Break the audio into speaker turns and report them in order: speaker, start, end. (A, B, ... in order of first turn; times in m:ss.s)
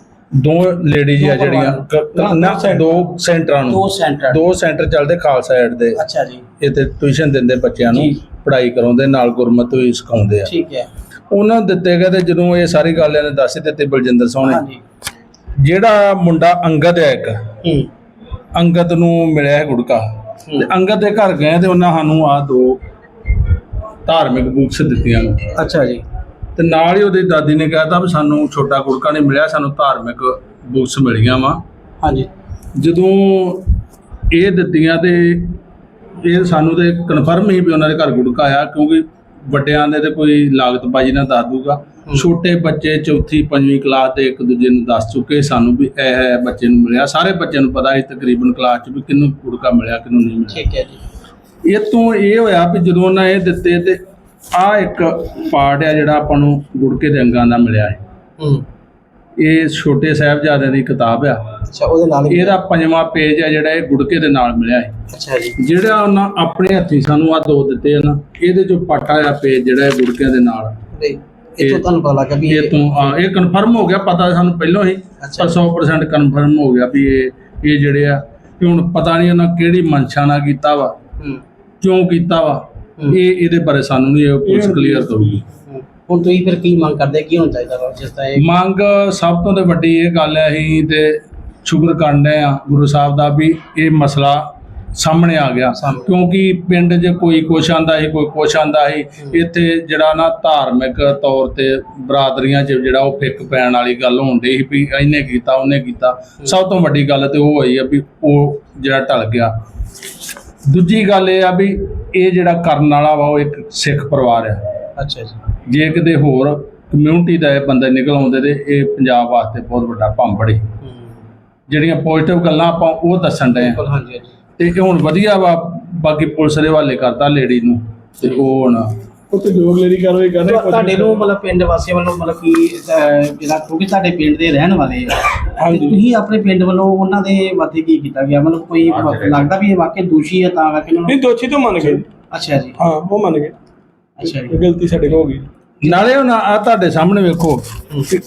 0:00.4-0:06.0 A
0:01.2-0:03.0 B
0:03.6-0:04.4 B
0:05.9-0:06.4 B
0:06.6-0:10.5 A
0:07.9-0:08.2 B
0:10.4-0:10.9 B
0:11.3-0:14.6 A
0:14.4-0:14.8 B
0:15.6-0:17.4 A
0:17.6-0:17.9 B
0:18.5-0:20.0 A
0:20.6-0:22.8 A
0:24.0-0:25.4 A
0:25.6-0:26.0 B
0:26.6-0:31.6 A
0:32.0-0:32.3 B
0:32.8-0:33.7 A
0:34.3-0:35.6 A
0:36.2-0:50.6 A
0:50.5-0:51.0 B
0:51.6-0:54.0 A
0:54.5-0:58.0 A
0:58.4-0:58.6 B
0:59.4-1:01.4 A
1:01.7-1:02.6 B
1:02.3-1:04.9 A
1:05.1-1:05.6 B
1:05.6-1:10.8 A
1:10.9-1:13.2 B
1:12.4-1:20.9 A
1:15.2-1:15.6 B
1:21.8-1:25.4 A
1:24.4-1:25.4 C
1:25.7-1:28.5 B
1:28.4-1:49.5 A
1:35.7-1:36.1 B
1:50.7-1:54.6 A
1:55.0-1:55.4 B
1:55.7-2:00.6 A
2:00.8-2:01.2 B
2:01.7-2:03.8 A
2:03.6-2:04.3 B
2:04.6-2:08.9 A
2:09.3-2:11.2 C
2:10.4-2:21.2 B
2:15.6-2:16.0 C
2:18.8-2:19.4 A
2:21.0-2:22.1 C
2:21.9-2:22.8 B
2:22.8-2:23.5 C
2:24.2-2:24.6 B
2:24.2-2:25.5 C
2:25.8-2:27.6 A